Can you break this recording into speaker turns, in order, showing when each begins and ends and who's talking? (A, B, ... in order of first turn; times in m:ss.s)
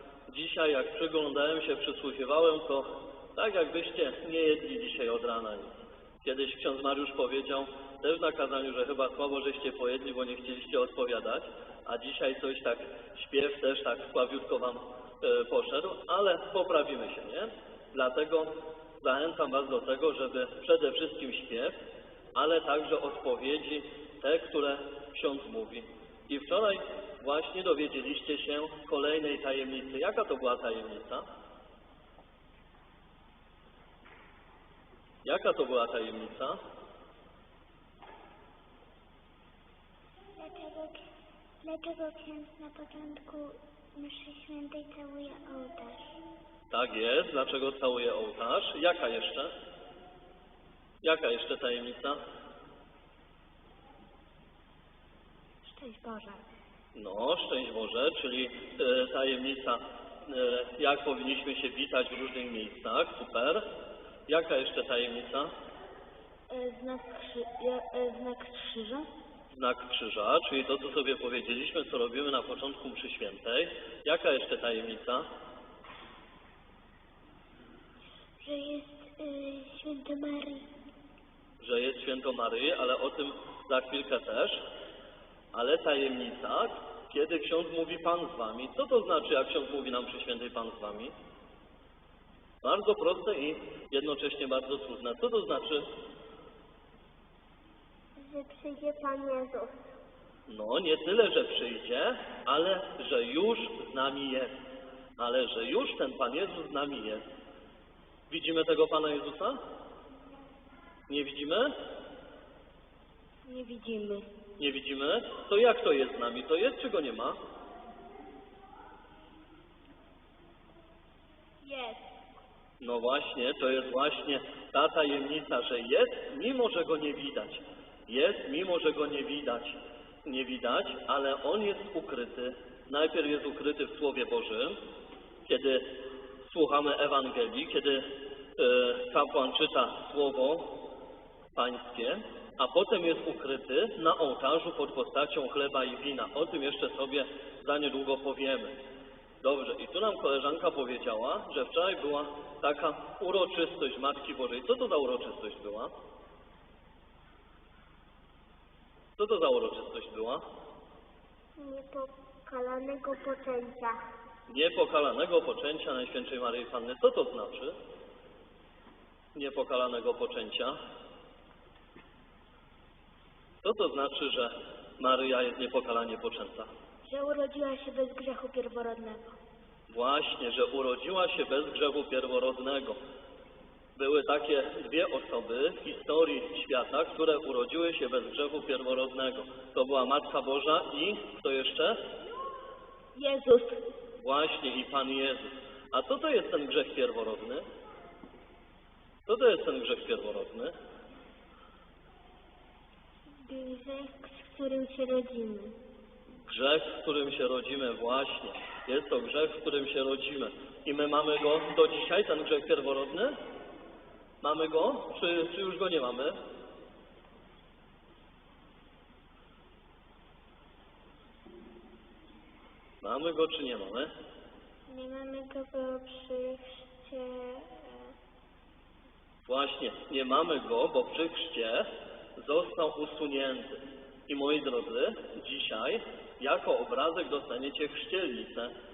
0:00.3-0:21.8 A
0:22.4-0:31.3 A
0:35.2-0:36.6 A
0:40.4-0:41.0 B
0:41.6-0:46.2 B
0:46.7-0:49.5 A
0:51.0-0:52.2 A
0:55.6-0:56.4 B
0:57.0-1:03.6 A
1:04.3-1:05.5 A
1:06.5-1:09.1 B
1:09.5-1:15.3 A
1:18.4-1:20.7 B
1:21.6-1:24.6 A
1:25.5-1:31.1 A
1:32.6-1:35.9 A
1:38.2-1:39.8 B
1:40.5-1:44.6 A
1:45.2-1:47.2 A
1:48.3-1:49.6 A
1:51.1-1:51.7 A
1:53.5-1:54.3 B
1:54.6-1:57.4 A
2:01.6-2:02.1 B
2:02.8-2:14.8 A
2:15.4-2:15.9 A
2:16.4-2:20.8 A
2:21.6-2:28.8 A
2:29.4-2:35.9 A
2:39.2-2:40.4 A
2:41.6-2:44.0 B
2:44.5-2:47.8 A
2:49.4-2:50.8 A
2:53.6-2:56.7 A
2:57.1-2:59.4 B
2:59.9-3:03.0 A
3:04.0-3:12.0 A
3:13.2-3:13.7 B
3:14.2-3:17.6 A
3:19.3-3:20.7 A
3:23.5-3:25.8 B
3:26.4-3:33.3 A
3:34.4-3:36.4 A
3:43.0-3:44.1 A
3:44.9-3:48.1 B
3:49.4-3:58.7 A